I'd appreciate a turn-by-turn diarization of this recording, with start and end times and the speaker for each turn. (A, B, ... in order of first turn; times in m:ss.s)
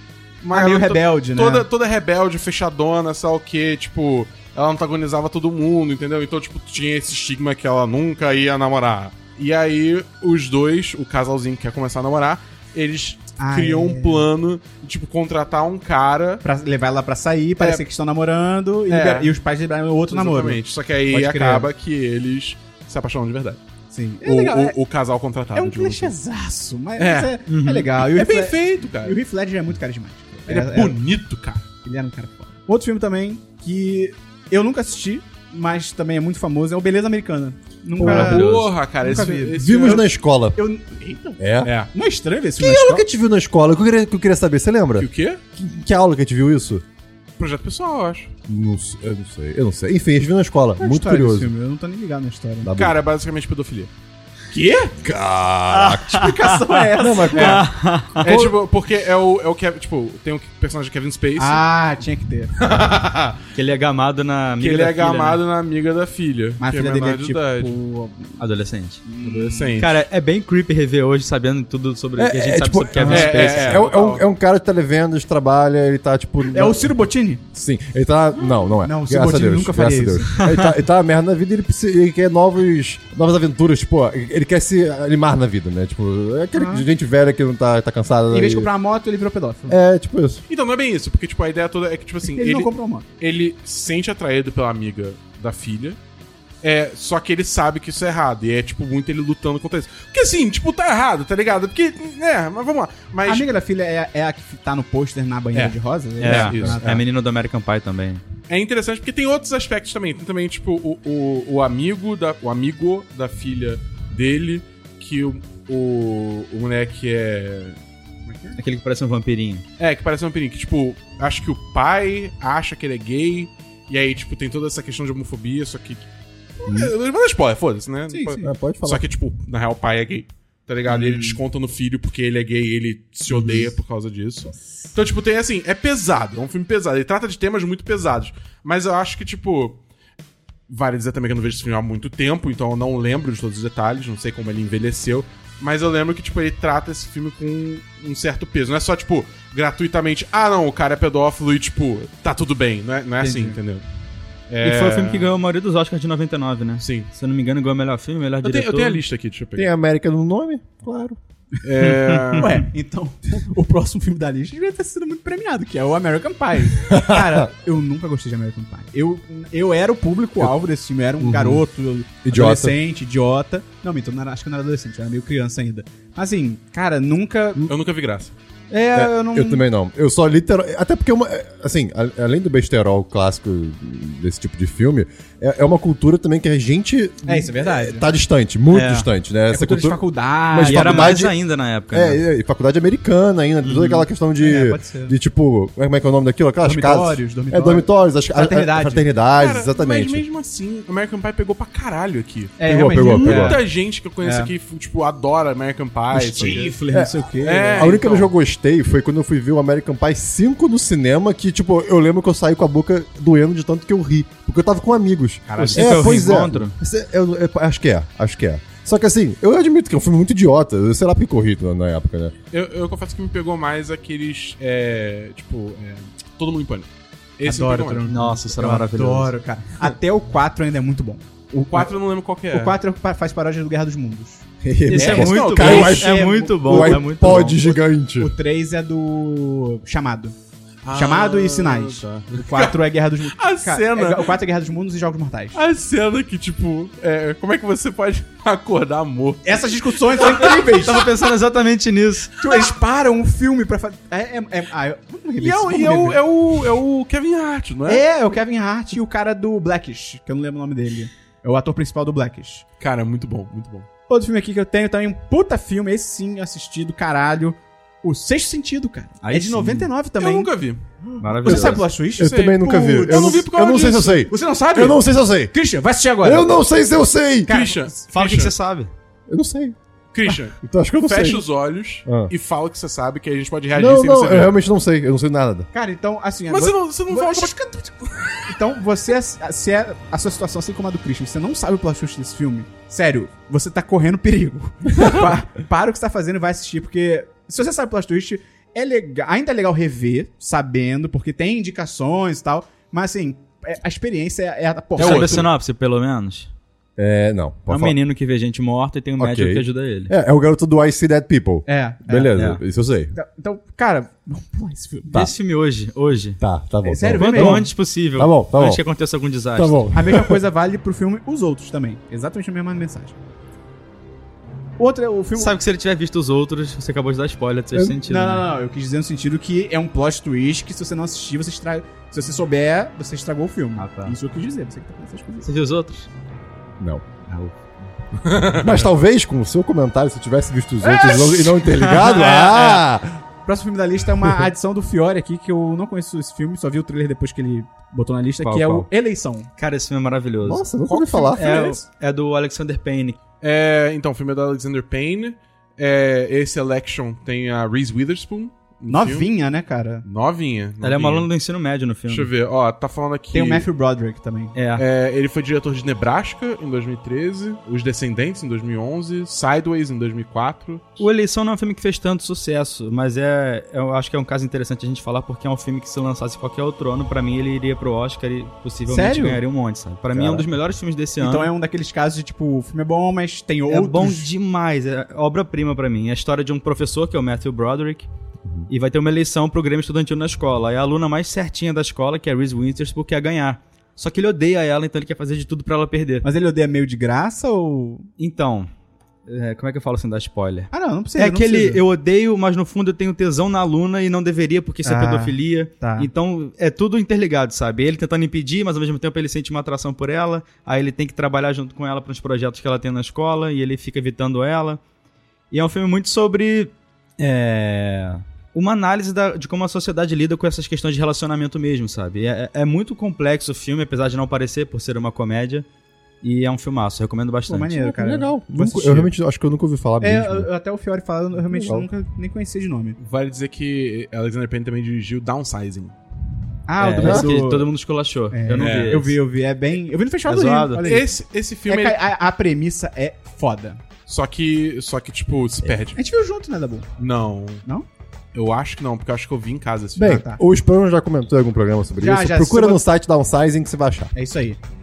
0:00.4-0:16.4 A
0:00.5-0:01.7 B
0:13.4-0:14.2 B
0:16.4-0:21.7 B
0:18.9-0:19.3 A
0:20.1-0:23.6 A
0:23.9-0:24.8 B
0:24.2-0:26.2 A
0:25.6-0:31.0 B
0:27.0-0:27.3 A
0:27.5-0:27.9 C
0:27.9-0:29.2 A
0:30.5-0:31.6 A
0:31.8-0:43.0 B
0:38.0-0:38.4 D
0:38.0-0:38.7 C
0:38.0-0:40.0 A
0:39.6-0:40.6 D
0:41.4-0:41.7 D
0:41.6-0:41.9 A
0:42.6-0:46.8 D
0:45.0-0:45.4 A
0:47.4-0:48.3 A
0:48.5-0:51.5 D
0:50.8-0:52.7 B
0:52.6-0:53.0 D
0:52.7-0:53.9 A
0:54.5-0:54.9 B
0:55.0-0:56.3 D
0:55.7-0:56.4 C
0:56.0-0:57.6 B
0:57.0-0:57.7 D
0:57.3-0:58.2 C
0:58.2-1:01.6 A
0:58.2-0:58.5 D
1:01.4-1:02.5 B
1:02.6-1:03.4 A
1:03.5-1:05.4 C
1:04.6-1:07.8 A
1:06.6-1:08.4 B
1:08.4-1:09.0 C
1:09.0-1:09.9 B
1:09.2-1:10.0 A
1:09.8-1:13.9 C
1:12.2-1:16.9 D
1:13.0-1:14.2 A
1:16.5-1:17.4 B
1:17.5-1:28.7 D
1:18.8-1:20.3 B
1:20.4-1:20.7 C
1:26.5-1:26.8 B
1:28.3-1:29.8 B
1:29.7-1:30.4 D
1:30.5-1:36.0 A
1:32.2-1:33.0 B
1:36.6-1:43.5 A
1:43.2-1:47.0 B
1:45.5-1:47.0 A
1:46.2-1:48.2 C
1:48.5-1:57.8 A
1:58.6-1:59.6 C
1:59.8-2:06.0 A
2:06.6-2:19.8 A
2:06.7-2:06.9 D
2:08.1-2:08.5 B
2:08.4-2:09.0 D
2:10.9-2:11.4 B
2:20.7-2:33.8 A
2:33.2-2:33.5 C
2:34.5-2:35.3 A
2:34.6-2:39.0 C
2:36.8-2:37.1 A
2:38.4-2:39.7 A
2:39.6-2:41.2 D
2:41.6-2:42.6 A
2:42.0-2:42.4 C
2:42.4-2:57.7 B
2:46.8-2:47.5 D
2:51.2-2:51.6 D
2:52.2-2:52.8 D
2:57.7-2:58.3 A
2:58.7-2:59.6 B
2:58.9-3:11.4 D
3:07.2-3:08.1 B
3:08.7-3:09.1 C
3:09.5-3:11.2 B
3:10.6-3:12.2 C
3:11.9-3:20.2 D
3:13.7-3:14.0 C
3:14.4-3:15.2 B
3:16.6-3:19.1 B
3:19.3-3:26.8 A
3:22.6-3:23.7 B
3:22.6-3:23.6 D
3:24.2-3:24.5 B
3:26.1-3:28.0 B
3:26.9-3:42.3 D
3:27.4-3:28.3 A
3:35.5-3:36.2 A
3:35.6-3:36.7 C
3:42.5-3:48.1 A
3:47.4-3:51.9 B
3:48.1-3:49.3 C
3:51.6-3:52.8 A
3:52.5-3:54.4 B
3:54.6-3:58.3 D
3:54.9-3:57.6 C
3:55.0-3:56.3 A
3:55.0-4:00.3 B
4:00.8-4:04.4 A
4:00.9-4:05.6 B
4:05.5-4:10.9 A
4:09.4-4:11.1 B
4:10.3-4:12.3 C
4:12.4-4:16.2 B
4:12.5-4:12.7 A
4:15.4-4:18.0 A
4:17.9-4:22.6 B
4:22.8-4:23.9 A
4:24.1-4:30.5 B
4:29.2-4:29.9 C
4:30.2-4:30.8 A
4:31.1-4:33.5 B
4:31.2-4:31.8 C
4:31.4-4:35.5 D
4:32.2-4:34.3 A
4:34.3-4:36.5 B
4:36.2-4:37.5 D
4:37.5-4:38.0 B
4:37.5-4:38.5 A
4:38.1-4:38.9 C
4:39.3-4:39.8 D
4:40.1-4:44.5 A
4:40.6-4:41.4 D
4:42.0-4:42.3 D
4:43.7-4:45.7 D
4:45.7-4:47.9 B
4:46.5-4:48.5 A
4:48.4-5:05.5 B
5:05.0-5:05.5 A
5:05.0-5:06.5 C
5:07.0-5:08.0 D
5:07.7-5:10.1 C
5:09.2-5:13.1 D
5:11.6-5:12.4 B
5:12.3-5:12.6 C
5:13.1-5:15.2 B
5:15.1-5:16.4 C
5:16.4-5:18.8 D
5:16.8-5:17.7 B
5:17.2-5:19.8 C
5:19.6-5:20.4 D
5:19.9-5:23.2 B
5:24.8-5:25.6 B
5:25.4-5:28.5 C
5:27.9-5:35.5 B
5:33.8-5:34.2 C
5:35.4-5:36.1 C
5:36.8-5:37.3 D
5:38.2-5:38.7 A
5:38.3-5:43.2 D
5:40.8-5:42.8 B
5:43.4-5:49.5 B
5:48.4-5:48.9 C
5:49.6-5:50.6 C
5:50.4-5:51.7 D
5:50.9-5:51.3 A
5:51.3-5:53.2 C
5:51.4-5:51.8 B
5:53.4-5:59.3 A
5:58.9-6:00.0 B
6:00.0-6:01.3 A
6:00.8-6:02.3 C
6:02.1-6:03.7 A
6:03.3-6:04.5 B
6:04.5-6:04.8 C
6:04.8-6:11.0 A
6:11.0-6:21.5 C
6:18.9-6:19.4 B
6:20.1-6:20.5 D
6:21.2-6:24.3 B
6:23.7-6:28.1 C
6:28.7-6:36.3 C
6:36.2-6:38.1 B
6:38.2-6:38.7 C
6:39.3-6:54.8 C
6:40.7-6:41.8 B
6:44.8-6:46.1 B
6:55.5-7:05.6 C
7:06.2-7:07.8 C
7:07.5-7:09.1 B
7:07.8-7:10.5 D
7:10.0-7:13.0 B
7:11.5-7:11.9 D
7:13.0-7:15.9 A
7:16.7-7:17.7 B
7:16.8-7:19.2 C
7:17.0-7:17.3 D
7:18.3-7:21.1 B
7:18.5-7:19.0 A
7:20.3-7:20.9 C
7:20.8-7:22.0 A
7:21.7-7:23.8 B
7:24.1-7:26.0 A
7:25.9-7:26.9 B
7:27.0-7:27.6 A
7:28.3-7:30.2 A
7:30.0-7:34.1 D
7:30.0-7:30.4 B
7:32.0-7:32.8 B
7:34.1-7:34.6 B